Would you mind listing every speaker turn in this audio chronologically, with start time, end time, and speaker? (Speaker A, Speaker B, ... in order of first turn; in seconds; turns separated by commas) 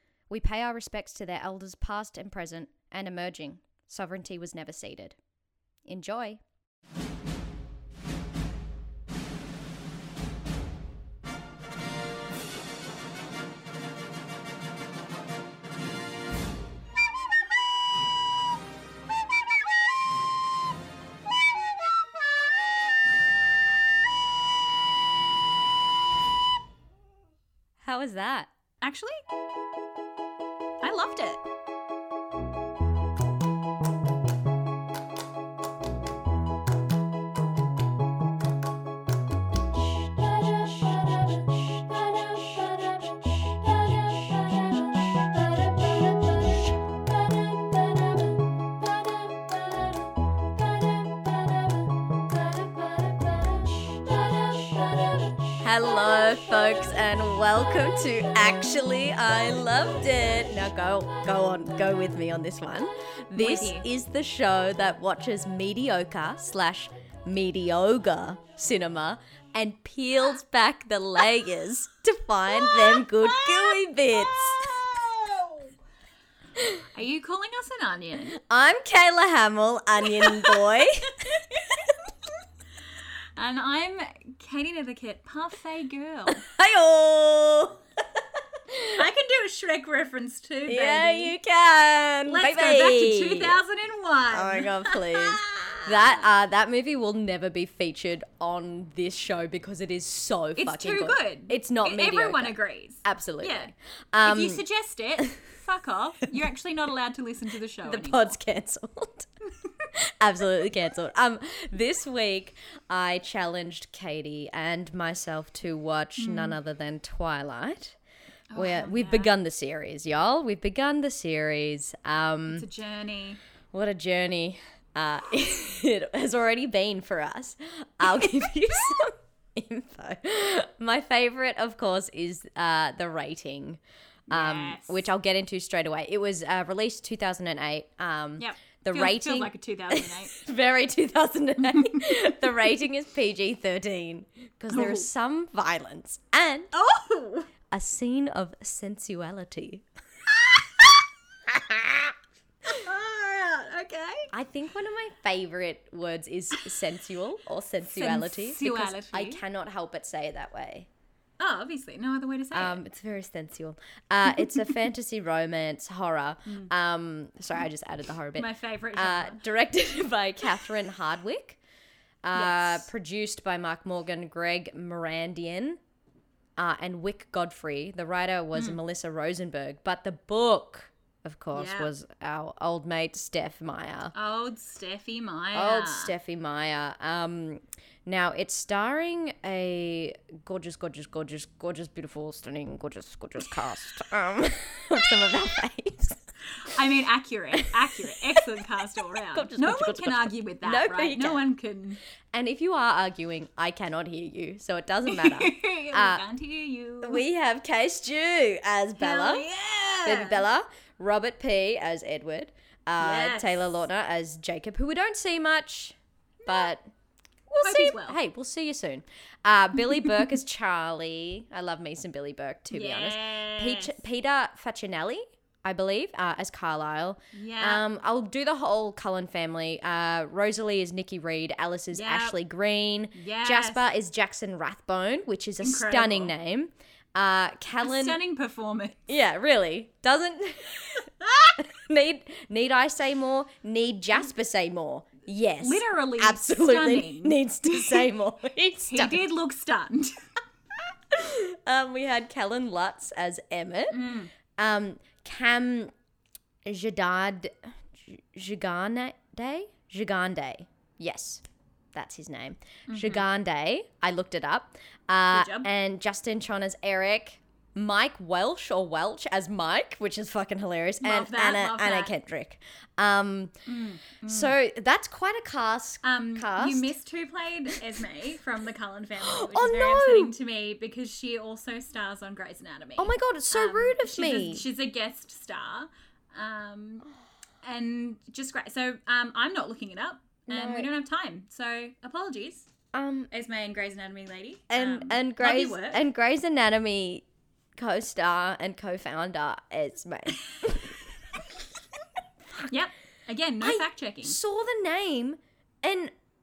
Speaker A: 0.3-5.2, Speaker A: 5.9-6.4, Speaker A: 27.8-28.5, Speaker B: 28.8-29.2, Speaker B: 30.8-31.4, Speaker A: 55.6-74.8, Speaker B: 63.4-63.9, Speaker B: 72.5-75.7, Speaker A: 76.6-76.8, Speaker B: 76.9-78.4, Speaker A: 78.4-81.9, Speaker B: 80.0-81.4, Speaker B: 83.4-86.4, Speaker A: 86.3-89.0, Speaker B: 89.0-91.3, Speaker A: 90.7-93.6, Speaker B: 92.3-96.2, Speaker A: 94.3-104.6, Speaker B: 100.6-103.7, Speaker B: 104.2-108.4, Speaker A: 107.8-109.3, Speaker A: 109.9-118.0, Speaker B: 116.2-116.6, Speaker B: 118.5-119.3, Speaker A: 118.6-122.7, Speaker B: 122.5-123.4, Speaker A: 123.7-146.7, Speaker B: 134.3-135.1, Speaker B: 138.4-140.4, Speaker B: 141.6-142.1, Speaker B: 144.7-145.1, Speaker B: 146.7-147.5, Speaker A: 147.7-149.8, Speaker B: 150.4-152.0, Speaker B: 152.7-154.3, Speaker A: 154.3-160.9, Speaker B: 157.9-159.4, Speaker B: 161.4-162.8, Speaker A: 162.5-171.6, Speaker B: 168.3-169.4, Speaker A: 172.2-175.8, Speaker B: 172.3-172.9, Speaker A: 176.6-184.1, Speaker B: 178.5-178.8, Speaker B: 181.5-181.9, Speaker B: 184.1-186.1, Speaker A: 185.5-196.2, Speaker B: 196.6-202.0, Speaker A: 199.3-201.5, Speaker A: 202.3-206.2, Speaker B: 205.1-207.2, Speaker A: 207.0-209.5, Speaker B: 209.0-210.4, Speaker A: 210.0-216.9, Speaker B: 213.0-213.8, Speaker B: 216.4-216.7, Speaker A: 217.5-238.2, Speaker B: 217.6-218.2, Speaker B: 219.9-220.3, Speaker B: 222.7-224.0, Speaker B: 227.3-227.8, Speaker B: 231.9-232.4, Speaker B: 233.1-233.8, Speaker B: 235.6-236.3, Speaker B: 237.8-239.1, Speaker A: 239.1-249.3, Speaker B: 245.6-248.1, Speaker B: 248.9-250.1, Speaker A: 251.1-255.9, Speaker B: 253.9-254.3, Speaker A: 256.7-261.4, Speaker A: 261.9-273.6, Speaker B: 262.9-263.2, Speaker B: 265.3-265.7, Speaker B: 271.0-272.1, Speaker B: 273.7-274.6, Speaker A: 274.3-276.9, Speaker B: 276.0-287.1, Speaker A: 279.2-280.3, Speaker A: 283.0-284.6, Speaker B: 287.6-292.7, Speaker A: 290.5-290.9, Speaker A: 292.9-293.3, Speaker B: 293.3-296.0, Speaker A: 294.7-297.2, Speaker A: 297.8-301.0, Speaker B: 302.6-304.4, Speaker A: 303.6-306.1